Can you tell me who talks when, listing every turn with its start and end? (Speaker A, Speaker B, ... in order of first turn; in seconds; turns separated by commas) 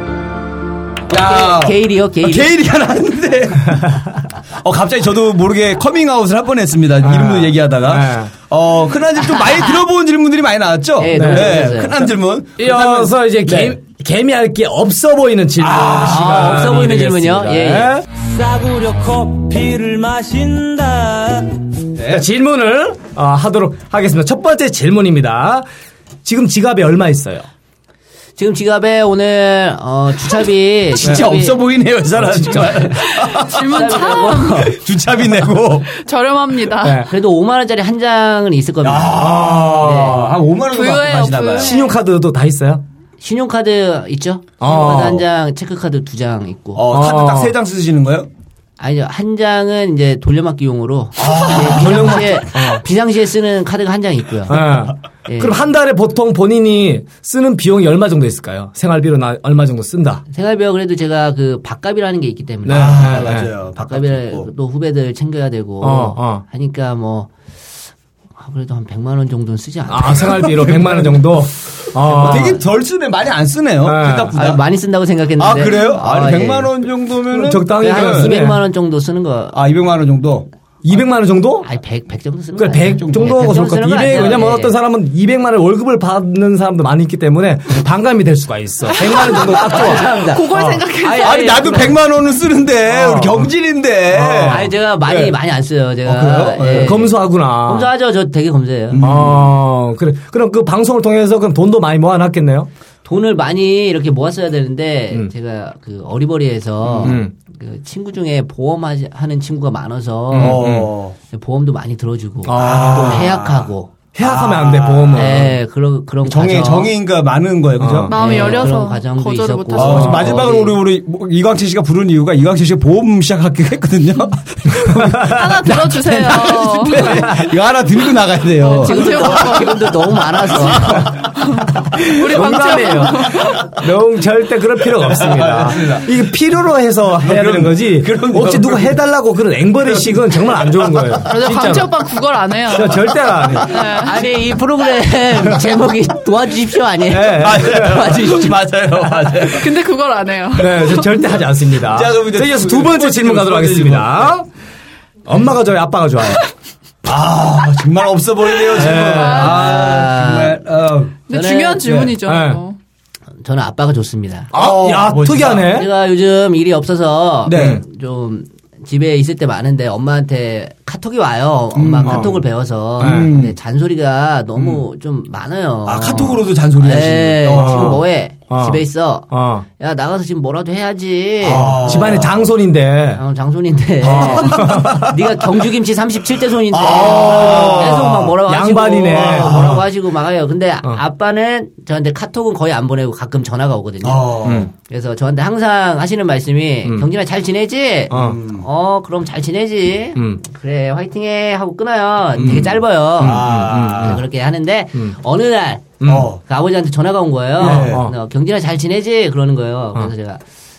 Speaker A: 1.1-2.6, Speaker B: 1.1-13.8, Speaker C: 7.0-8.3, Speaker A: 11.0-12.1, Speaker C: 11.1-11.7, Speaker C: 12.6-25.7, Speaker B: 15.6-16.8, Speaker A: 16.0-18.0, Speaker B: 22.0-22.3, Speaker C: 26.2-27.5, Speaker A: 28.4-31.6, Speaker B: 31.0-35.9, Speaker C: 32.2-32.9, Speaker D: 33.0-34.8, Speaker A: 33.6-34.8, Speaker D: 35.9-37.1, Speaker C: 36.8-37.1, Speaker A: 37.1-40.3, Speaker B: 38.8-41.7, Speaker C: 39.1-40.4, Speaker D: 40.7-42.0, Speaker C: 41.6-42.8, Speaker A: 43.2-46.8, Speaker C: 44.6-45.2, Speaker B: 46.8-48.3, Speaker C: 46.9-47.5, Speaker A: 48.8-54.7, Speaker B: 51.2-52.4, Speaker C: 51.5-52.8, Speaker C: 54.5-60.2, Speaker A: 55.2-55.6, Speaker A: 60.3-67.3, Speaker C: 62.6-63.5, Speaker B: 62.7-64.5, Speaker C: 65.8-66.4, Speaker A: 68.4-70.8, Speaker C: 69.9-72.6, Speaker B: 70.4-71.2, Speaker B: 72.1-74.6, Speaker C: 73.8-74.3, Speaker A: 74.3-76.7, Speaker B: 75.4-78.3, Speaker C: 77.3-78.6, Speaker A: 77.8-79.6, Speaker B: 79.5-80.5, Speaker C: 80.8-81.7, Speaker A: 81.6-84.8, Speaker C: 82.6-90.9, Speaker B: 83.1-83.3, Speaker D: 89.0-91.9, Speaker A: 89.2-90.5, Speaker B: 91.0-95.4, Speaker A: 91.2-92.0, Speaker C: 92.9-93.5, Speaker C: 94.1-94.7, Speaker A: 94.4-99.0, Speaker B: 96.0-97.0, Speaker C: 96.7-97.9, Speaker B: 98.9-99.5, Speaker C: 99.0-102.7, Speaker A: 103.0-110.7, Speaker B: 106.8-107.2, Speaker C: 107.0-107.3, Speaker B: 110.3-111.2, Speaker C: 110.3-110.9, Speaker A: 111.3-113.9, Speaker C: 112.4-113.4, Speaker B: 112.5-113.7, Speaker C: 114.2-115.6, Speaker B: 114.2-115.4, Speaker A: 115.1-116.9, Speaker B: 116.3-118.7, Speaker C: 117.8-118.2, Speaker D: 118.1-120.1, Speaker A: 118.1-120.8, Speaker B: 119.8-129.8, Speaker C: 119.9-120.4, Speaker C: 124.8-125.6, Speaker D: 125.2-127.3, Speaker C: 127.0-127.5, Speaker D: 128.6-129.8, Speaker A: 128.8-131.3, Speaker B: 130.5-131.1, Speaker D: 131.4-133.7, Speaker C: 131.8-141.9, Speaker B: 134.9-136.1, Speaker B: 137.2-139.0, Speaker B: 139.9-141.1, Speaker D: 141.3-143.1, Speaker C: 142.7-143.7, Speaker D: 143.6-144.2, Speaker A: 143.7-148.6, Speaker C: 147.1-148.2, Speaker B: 147.4-149.8, Speaker D: 149.4-151.3, Speaker C: 150.6-154.5, Speaker B: 151.8-154.3, Speaker C: 155.3-156.5, Speaker B: 157.0-161.2, Speaker C: 158.7-159.6, Speaker D: 158.9-159.8, Speaker A: 159.2-160.6, Speaker D: 161.3-162.8, Speaker A: 161.3-161.9, Speaker B: 161.8-162.2, Speaker C: 162.2-162.6, Speaker A: 163.4-164.5, Speaker C: 164.5-165.9, Speaker B: 164.5-165.8, Speaker A: 165.6-182.1, Speaker B: 167.5-167.8, Speaker C: 167.5-167.8, Speaker B: 171.7-172.4, Speaker C: 172.1-172.4, Speaker B: 173.0-173.6, Speaker C: 173.0-173.3, Speaker B: 174.6-174.8, Speaker B: 175.9-178.0, Speaker C: 177.5-179.7, Speaker B: 181.4-182.5, Speaker C: 181.5-183.2, Speaker A: 183.2-210.4, Speaker C: 184.0-185.1, Speaker B: 184.1-185.2, Speaker B: 186.7-188.3, Speaker C: 186.9-189.9, Speaker B: 189.1-189.8, Speaker B: 194.0-194.7, Speaker C: 194.4-194.7, Speaker C: 198.1-198.4, Speaker B: 198.1-198.7, Speaker C: 200.2-200.4, Speaker C: 202.4-204.2, Speaker B: 202.4-204.2, Speaker C: 206.0-206.3, Speaker B: 206.1-206.4, Speaker B: 207.6-208.0, Speaker C: 207.6-208.1